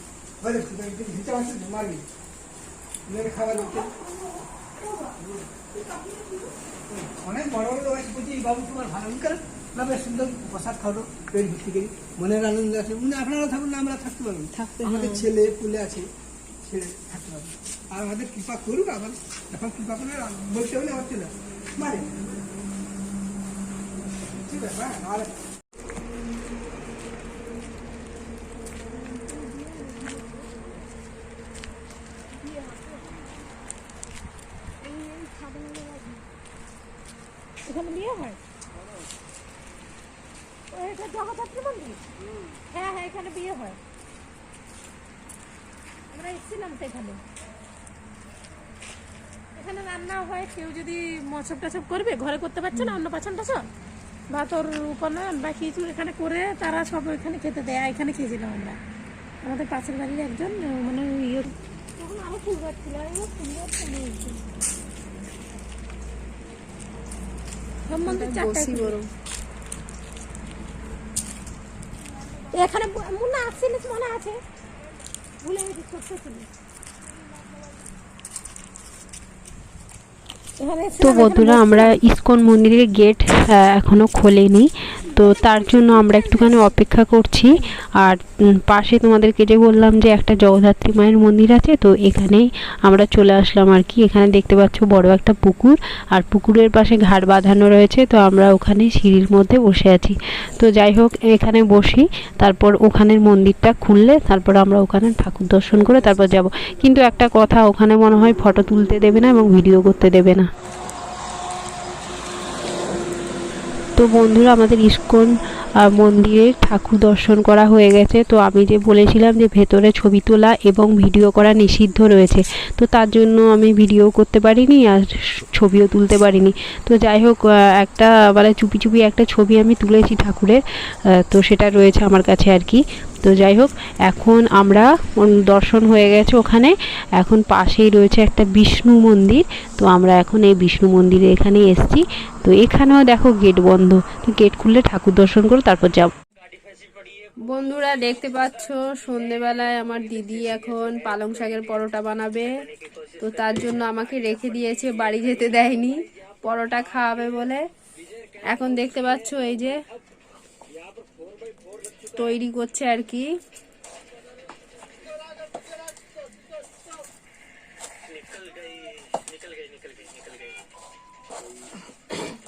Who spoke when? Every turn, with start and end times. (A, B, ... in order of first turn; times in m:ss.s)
0:00.4-0:02.0 A
0:03.1-0:03.9 A
0:03.5-0:05.2 B
0:05.2-0:16.1 A
0:14.5-0:15.3 C
0:16.6-0:22.1 A
0:24.3-0:25.3 A
0:29.2-0:30.5 B
0:32.5-0:32.9 B
0:34.8-0:36.2 B
0:37.6-0:38.4 B
0:40.7-0:42.0 B
0:42.7-0:43.8 B
0:46.1-0:47.2 B
0:49.6-0:53.7 B
0:54.3-0:58.8 B
0:59.4-1:04.5 B
1:07.9-1:09.0 B
1:08.0-1:09.1 C
1:12.4-1:14.4 B
1:15.4-1:16.5 B
1:20.6-1:22.0 B
1:21.0-1:50.5 D
1:25.0-1:26.8 B
1:54.0-2:10.6 D
2:11.2-2:26.1 D
2:27.5-2:32.5 C
2:33.2-2:37.6 C
2:38.5-2:39.8 C
2:42.2-2:43.2 C